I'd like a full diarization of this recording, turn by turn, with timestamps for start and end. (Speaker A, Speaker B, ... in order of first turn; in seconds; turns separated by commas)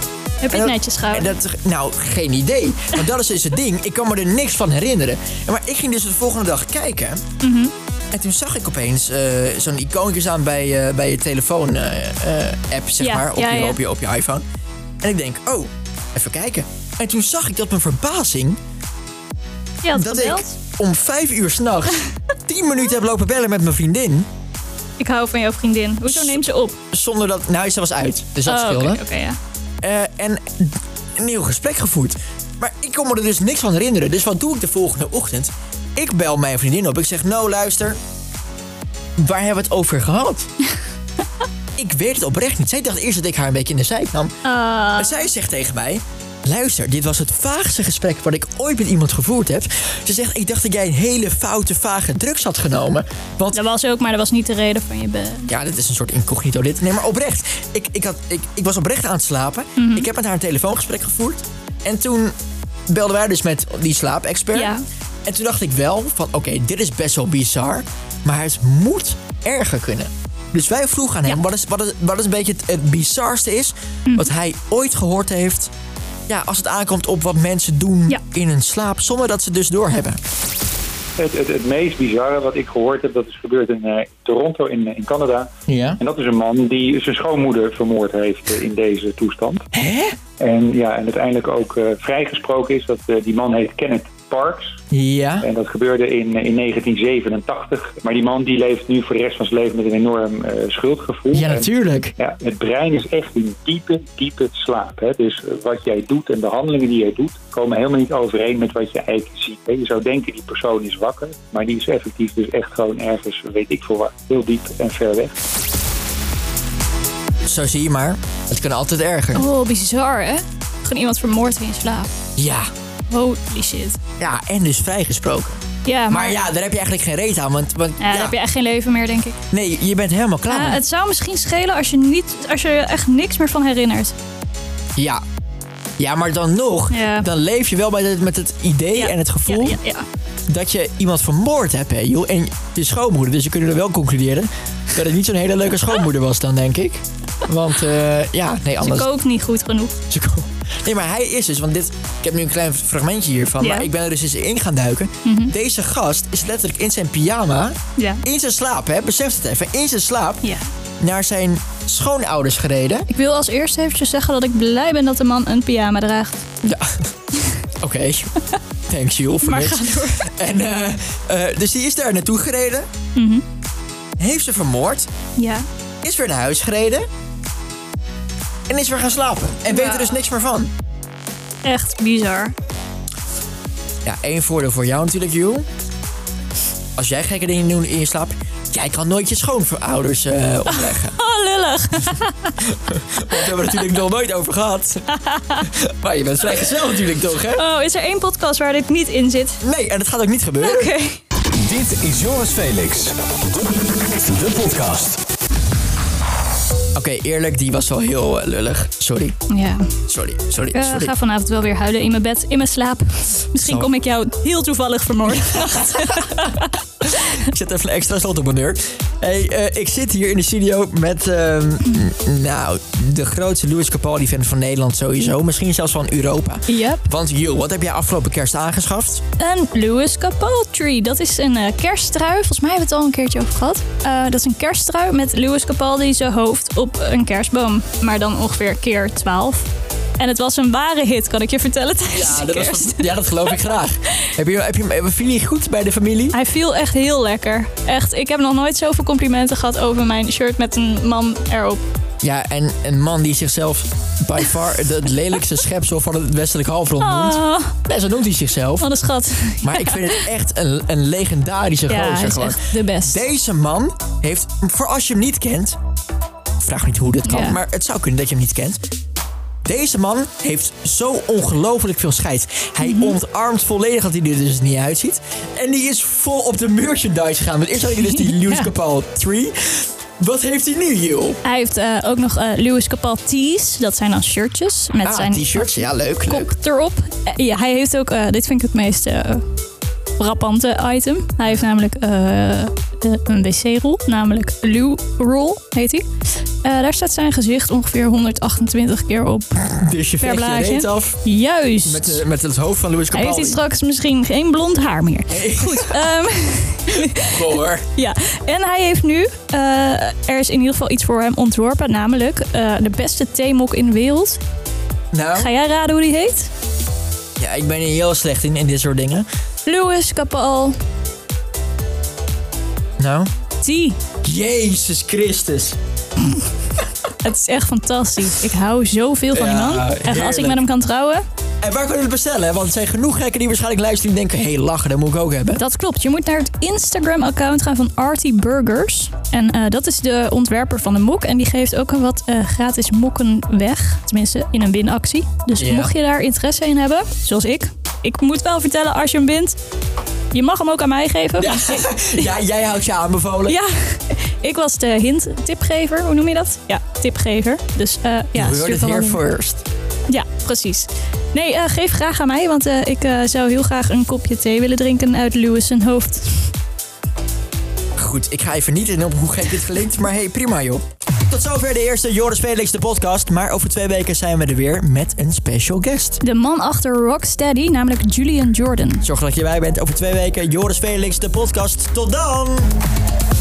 Speaker A: 0.4-1.3, Speaker B: 0.5-7.2, Speaker A: 7.4-7.7, Speaker B: 8.1-14.4, Speaker A: 13.0-13.8, Speaker B: 15.0-18.6, Speaker A: 19.8-20.6, Speaker B: 19.9-24.3, Speaker A: 25.0-26.8, Speaker B: 26.1-29.0, Speaker A: 28.5-29.4, Speaker B: 29.8-38.0, Speaker B: 39.2-40.5, Speaker B: 41.8-44.3, Speaker A: 44.5-45.3, Speaker B: 45.0-53.6, Speaker A: 53.5-55.5, Speaker B: 55.5-62.4, Speaker A: 59.8-60.1, Speaker B: 62.9-64.8, Speaker A: 64.5-64.8, Speaker B: 65.3-75.7, Speaker B: 76.3-80.2, Speaker C: 81.2-89.7, Speaker B: 85.7-86.0, Speaker B: 89.7-90.2, Speaker C: 90.4-94.8, Speaker B: 94.9-95.5, Speaker C: 95.4-115.3, Speaker B: 101.3-102.2, Speaker B: 117.5-119.5, Speaker A: 119.3-122.1, Speaker B: 122.4-122.7, Speaker A: 123.1-124.0, Speaker B: 124.2-128.3, Speaker A: 125.8-126.4, Speaker A: 128.0-129.4, Speaker B: 129.5-130.8, Speaker A: 130.5-134.2, Speaker B: 135.0-135.2, Speaker B: 136.0-139.8, Speaker A: 136.9-137.3, Speaker A: 138.9-140.1, Speaker B: 140.5-149.1, Speaker A: 148.8-149.9, Speaker B: 150.1-160.5, Speaker A: 153.6-153.9, Speaker A: 155.2-155.5, Speaker A: 158.0-158.2, Speaker B: 161.0-163.1, Speaker A: 163.1-166.4, Speaker B: 166.6-167.1, Speaker B: 167.8-168.3, Speaker B: 168.9-172.9, Speaker A: 169.4-170.3, Speaker A: 173.2-173.4, Speaker B: 174.2-175.1, Speaker A: 175.4-175.7, Speaker B: 176.0-177.1, Speaker B: 178.7-180.7, Speaker A: 179.7-180.1, Speaker A: 181.6-182.5, Speaker B: 184.0-185.7, Speaker B: 187.0-191.1, Speaker A: 190.7-192.6, Speaker B: 192.6-195.1, Speaker A: 193.3-193.9, Speaker A: 195.1-195.7, Speaker B: 195.6-197.6, Speaker A: 197.6-199.6, Speaker B: 199.6-200.9, Speaker A: 200.6-201.2, Speaker D: 201.6-205.2, Speaker B: 206.9-209.4, Speaker A: 209.5-209.9, Speaker B: 210.1-211.1, Speaker A: 210.7-216.7, Speaker B: 213.6-213.9, Speaker B: 215.6-216.4, Speaker B: 217.4-229.2, Speaker A: 226.7-227.0, Speaker A: 229.4-243.5, Speaker B: 242.1-246.4, Speaker A: 246.3-251.8, Speaker B: 252.2-258.9, Speaker A: 257.0-257.8, Speaker A: 258.8-260.2, Speaker B: 259.6-265.8, Speaker A: 261.9-263.2, Speaker B: 266.6-268.8, Speaker A: 267.3-267.6, Speaker B: 269.6-281.4, Speaker A: 272.8-273.2, Speaker A: 278.2-278.7, Speaker A: 281.4-285.8, Speaker B: 285.0-286.5, Speaker A: 286.3-289.4, Speaker A: 290.2-296.1, Speaker A: 296.6-299.7, Speaker B: 299.7-301.2, Speaker A: 300.2-302.2, Speaker B: 301.8-303.6, Speaker A: 303.1-307.4, Speaker B: 305.3-306.1, Speaker B: 306.9-307.9, Speaker A: 307.9-314.4, Speaker B: 315.1-315.5, Speaker A: 315.4-316.5, Speaker B: 317.4-319.3, Speaker A: 319.7-320.8, Speaker B: 323.0-323.3, Speaker A: 323.6-324.0, Speaker B: 324.2-325.8, Speaker A: 327.2-331.2, Speaker B: 329.3-330.6, Speaker B: 331.6-335.6, Speaker A: 335.6-349.6, Speaker B: 345.6-345.9, Speaker A: 350.3-352.3, Speaker B: 351.4-353.6, Speaker A: 353.5-359.2, Speaker B: 358.3-359.6, Speaker A: 360.1-366.5, Speaker B: 368.0-376.2, Speaker A: 376.2-379.1, Speaker B: 379.0-382.8